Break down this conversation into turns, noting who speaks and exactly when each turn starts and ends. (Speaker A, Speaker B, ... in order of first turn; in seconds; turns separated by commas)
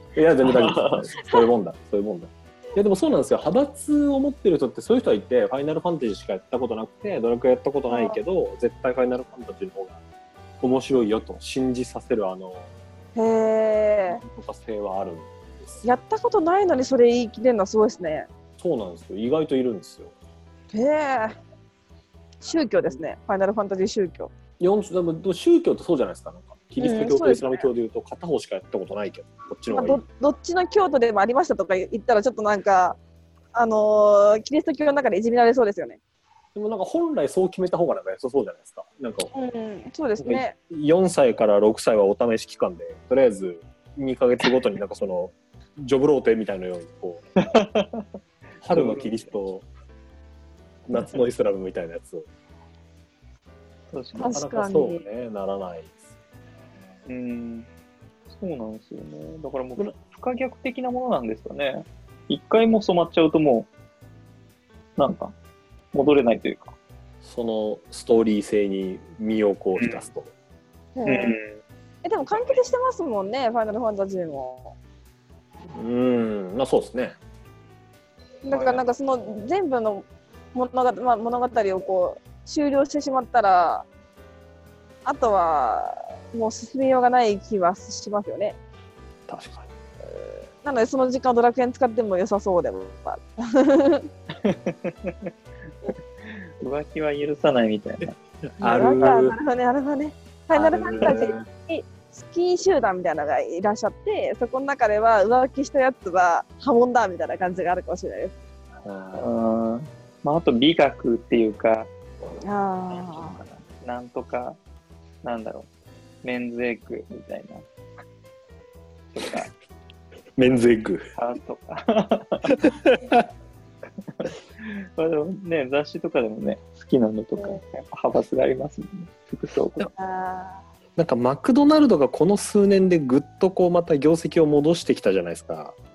Speaker A: 0.2-10.0, Speaker B: 0.5-1.1, Speaker C: 7.9-8.2, Speaker A: 10.6-12.7, Speaker C: 13.2-14.2, Speaker A: 14.1-15.8, Speaker C: 15.8-18.3, Speaker A: 18.6-20.1, Speaker C: 20.7-21.4, Speaker C: 22.4-24.3, Speaker A: 24.6-30.0, Speaker C: 26.8-27.7, Speaker C: 29.7-33.0, Speaker C: 33.5-36.0, Speaker A: 36.5-39.3, Speaker C: 39.3-40.5, Speaker A: 40.2-47.3, Speaker B: 47.4-48.1, Speaker A: 48.6-49.7, Speaker B: 48.7-49.1, Speaker A: 50.9-52.3, Speaker B: 53.9-54.4, Speaker C: 54.2-55.0, Speaker A: 54.3-56.0, Speaker B: 57.1-57.7, Speaker B: 58.3-63.7, Speaker B: 65.0-65.3, Speaker B: 65.9-66.8, Speaker A: 67.2-70.3, Speaker B: 69.8-70.1, Speaker C: 71.0-71.4, Speaker B: 71.1-71.6, Speaker C: 72.0-74.8, Speaker A: 75.7-77.2, Speaker C: 78.4-83.9, Speaker B: 78.5-78.8, Speaker C: 85.0-88.6, Speaker A: 89.3-89.7, Speaker C: 90.6-94.1, Speaker B: 94.4-95.3, Speaker B: 95.8-98.2, Speaker A: 98.6-99.4, Speaker C: 98.6-108.4, Speaker A: 100.5-101.5, Speaker B: 101.0-101.2, Speaker A: 108.8-109.3, Speaker B: 109.2-111.9, Speaker C: 112.4-113.4, Speaker B: 112.9-114.6, Speaker B: 115.2-115.7, Speaker B: 116.2-117.7, Speaker B: 119.1-119.5, Speaker A: 120.4-121.1, Speaker B: 121.2-122.6, Speaker A: 122.5-123.2, Speaker B: 124.1-129.9, Speaker C: 129.9-130.6, Speaker A: 131.0-135.8